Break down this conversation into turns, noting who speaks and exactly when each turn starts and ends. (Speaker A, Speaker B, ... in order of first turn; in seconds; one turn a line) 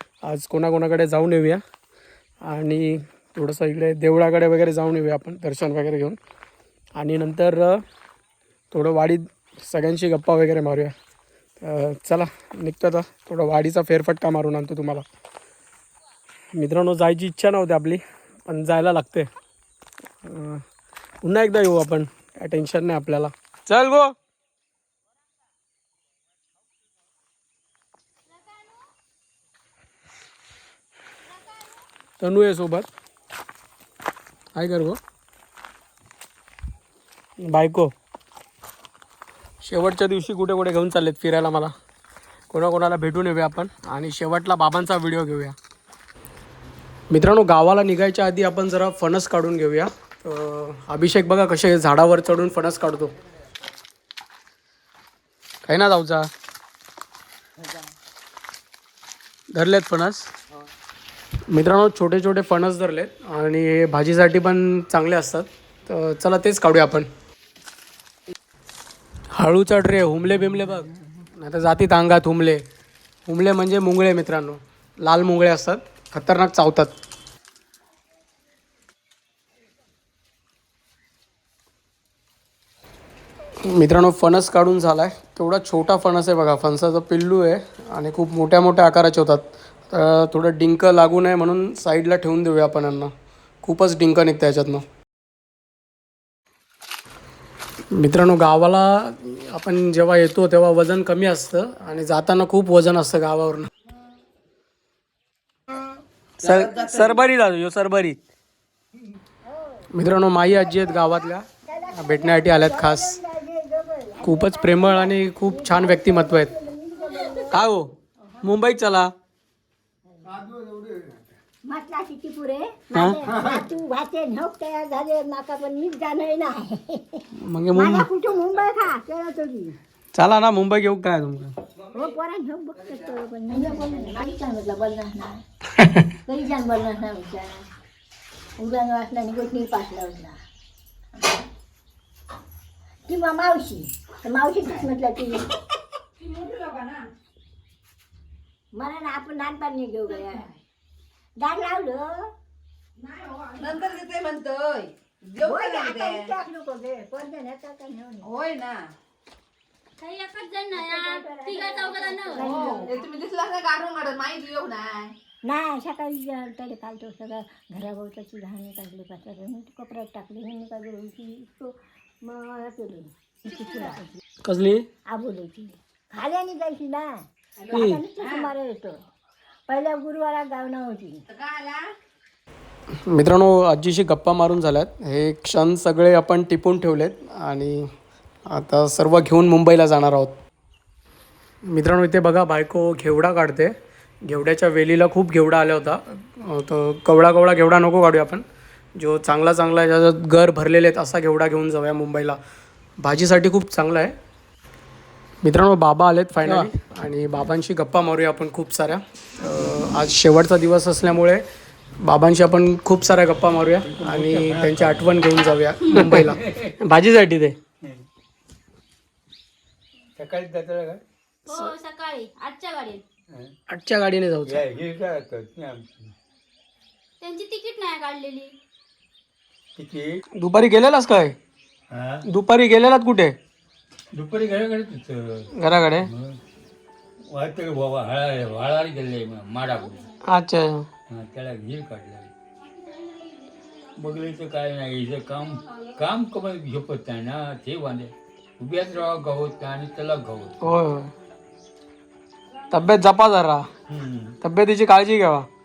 Speaker A: 0.2-1.6
Speaker A: 2.4-6.2
Speaker A: 7.0-7.8
Speaker A: 8.7-10.9
Speaker A: 11.6-15.0
Speaker A: 16.5-19.3
Speaker A: 20.2-20.6
Speaker A: 21.2-24.1
Speaker A: 32.2-32.9
Speaker A: 34.5-35.0
Speaker A: 37.4-37.9
Speaker A: 39.6-41.7
Speaker A: 42.5-45.5
Speaker A: 47.1-53.1
Speaker A: 55.6-56.3
Speaker A: 59.5-60.3
Speaker A: 61.5-67.1
Speaker A: 69.3-72.6
Speaker A: 73.3-76.9
Speaker A: 83.6-93.1
Speaker A: 93.6-94.8
Speaker A: 97.9-103.7
Speaker A: 106.4-108.2
Speaker B: 109.4-109.8
Speaker A: 109.9-113.2
Speaker B: 111.6-117.6
Speaker A: 114.2-116.5
Speaker A: 117.5-119.1
Speaker B: 121.6-129.8
Speaker A: 127.4-128.1
Speaker A: 130.1-131.5
Speaker B: 131.9-135.4
Speaker B: 136.2-137.7
Speaker B: 138.6-140.3
Speaker B: 143.1-145.5
Speaker C: 146.2-147.1
Speaker B: 148.7-150.5
Speaker B: 151.4-152.3
Speaker C: 153.2-156.3
Speaker B: 155.4-158.3
Speaker C: 158.3-158.9
Speaker D: 160.0-162.5
Speaker B: 160.7-163.0
Speaker C: 162.6-165.2
Speaker B: 165.4-171.7
Speaker B: 172.2-174.1
Speaker A: 174.4-174.8
Speaker B: 175.1-179.0
Speaker B: 179.7-181.2
Speaker C: 181.3-181.9
Speaker A: 183.1-187.9
Speaker A: 188.5-190.3
Speaker A: 191.7-193.7
Speaker A: 194.2-198.4
Speaker A: 199.0-202.4
Speaker A: 203.0-204.1
Speaker A: 205.4-211.4
Speaker A: 212.0-217.6
Speaker E: 213.8-215.3
Speaker E: 215.8-216.7
Speaker E: 220.2-221.0
Speaker D: 221.4-223.0
Speaker A: 223.7-224.6
Speaker E: 224.5-226.1
Speaker D: 227.2-228.5
Speaker E: 229.8-230.2
Speaker A: 230.4-231.3
Speaker E: 231.9-232.2
Speaker A: 232.2-233.3
Speaker E: 234.1-236.4
Speaker A: 235.6-236.1
Speaker E: 237.3-240.1
Speaker A: 240.3-240.8
Speaker E: 241.1-242.3
Speaker D: 243.0-243.6
Speaker E: 243.9-250.7
Speaker A: 250.6-251.1
Speaker A: 252.7-253.7
Speaker E: 253.8-254.3
Speaker A: 254.4-255.5